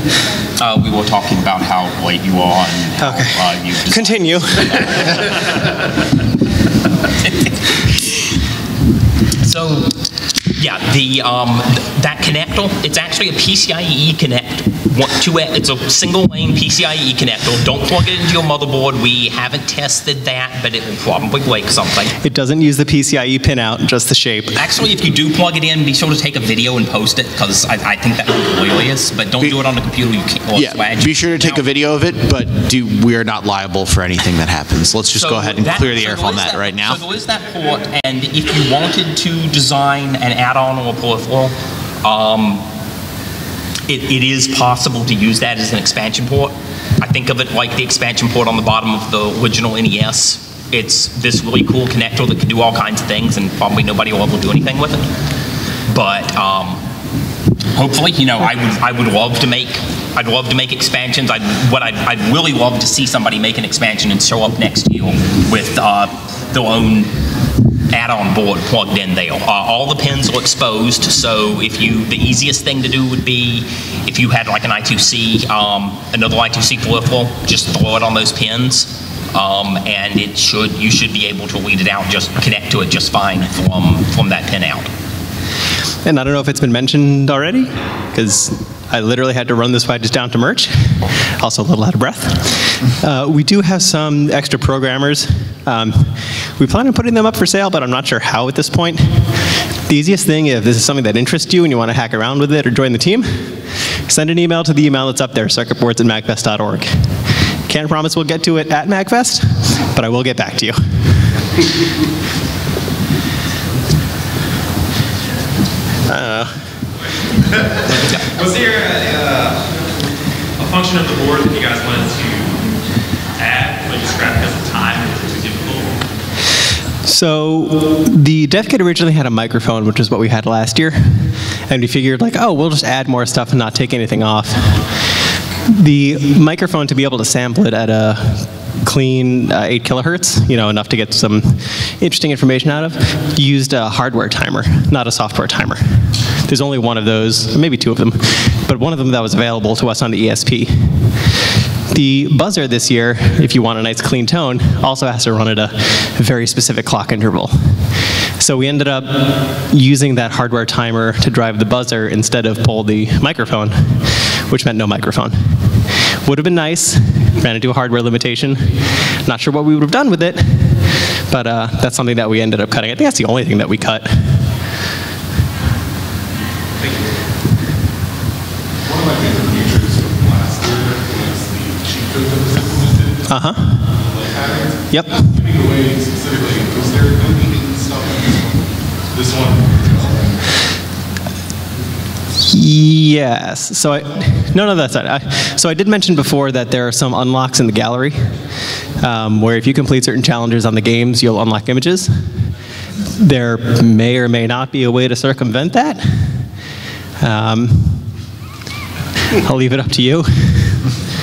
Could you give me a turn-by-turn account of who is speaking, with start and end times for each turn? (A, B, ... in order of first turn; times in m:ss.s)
0:00.6-0:05.3 A
0:03.0-0:04.8 B
0:07.3-0:08.3 A
0:09.4-0:10.0 A
0:10.6-0:22.2 A
0:22.2-0:24.5 B
0:24.6-0:31.6 A
0:30.6-0:37.0 C
0:35.1-0:42.6 A
0:43.9-0:55.1 A
0:55.9-0:56.8 A
0:57.8-1:07.1 A
1:07.9-1:24.9 A
1:26.0-1:39.3 B
1:39.9-1:47.1 B
1:47.7-1:50.8 B
1:56.1-1:56.5 B
1:57.6-1:59.8 D
2:00.6-2:02.6 D
2:03.4-2:06.0 D
2:07.0-2:14.8 B
2:15.7-2:31.2 B
2:31.9-2:37.8 B
2:38.4-2:45.6 B
2:46.2-2:54.4 B
2:58.8-3:10.4 E
3:03.3-3:03.9 B
3:04.9-3:05.2 B
3:12.5-3:18.3 B
3:19.0-3:22.3 B
3:23.2-3:26.3 B
3:27.2-3:28.1 B
3:29.3-3:30.8 B